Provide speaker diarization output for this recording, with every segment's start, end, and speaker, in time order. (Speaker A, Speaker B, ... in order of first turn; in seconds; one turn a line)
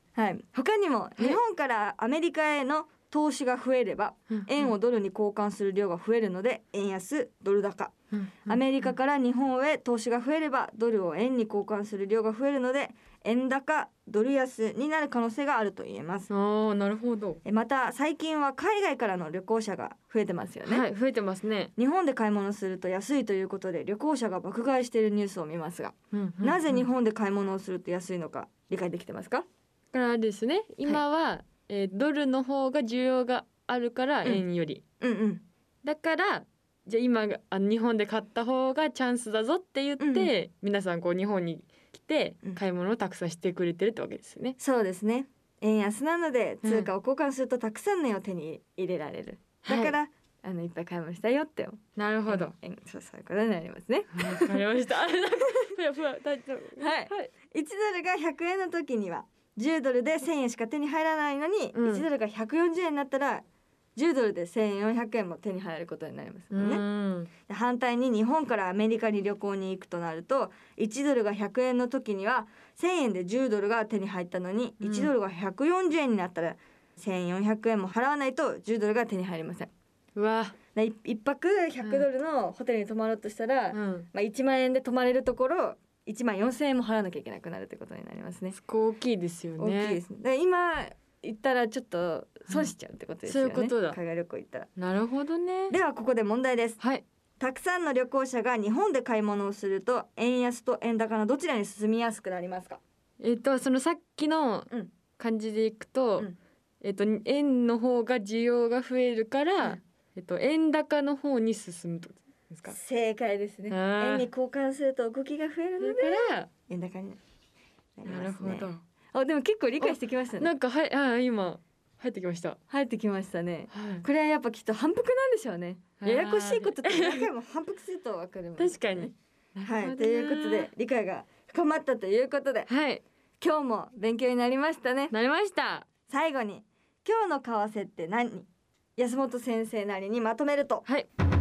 Speaker A: 0.1-7.9
Speaker B: 4.3-4.7
Speaker B: 8.1-8.9
Speaker A: 8.4-16.3
Speaker B: 16.3-17.4
Speaker A: 17.4-20.9
Speaker B: 20.6-21.7
Speaker A: 21.8-29.5
Speaker B: 26.1-26.9
Speaker B: 29.9-34.8
Speaker A: 35.0-35.4
Speaker B: 35.8-44.6
Speaker A: 40.0-40.3
Speaker A: 44.6-54.6
Speaker B: 46.6-46.9
Speaker B: 49.6-50.0
Speaker B: 52.0-52.5
Speaker B: 54.1-57.3
Speaker A: 56.8-63.5
Speaker B: 61.7-62.1
Speaker A: 64.0-66.8
Speaker B: 66.5-67.3
Speaker A: 67.5-79.7
Speaker B: 74.8-75.1
Speaker B: 80.2-80.5
Speaker A: 80.8-88.6
Speaker B: 81.8-82.1
Speaker B: 83.7-84.1
Speaker B: 88.5-90.0
Speaker A: 89.6-94.7
Speaker B: 93.2-94.0
Speaker B: 94.8-95.8
Speaker A: 95.7-96.8
Speaker A: 97.4-102.8
Speaker B: 103.2-106.3
Speaker B: 106.8-112.8
Speaker A: 112.7-117.2
Speaker B: 113.7-114.3
Speaker B: 115.8-116.5
Speaker A: 118.0-120.5
Speaker B: 118.0-118.8
Speaker B: 119.8-122.6
Speaker A: 122.7-129.1
Speaker B: 123.7-124.1
Speaker B: 126.0-127.3
Speaker B: 128.6-130.7
Speaker A: 129.7-132.7
Speaker B: 132.7-133.0
Speaker A: 133.4-135.1
Speaker B: 135.1-135.9
Speaker A: 136.1-140.8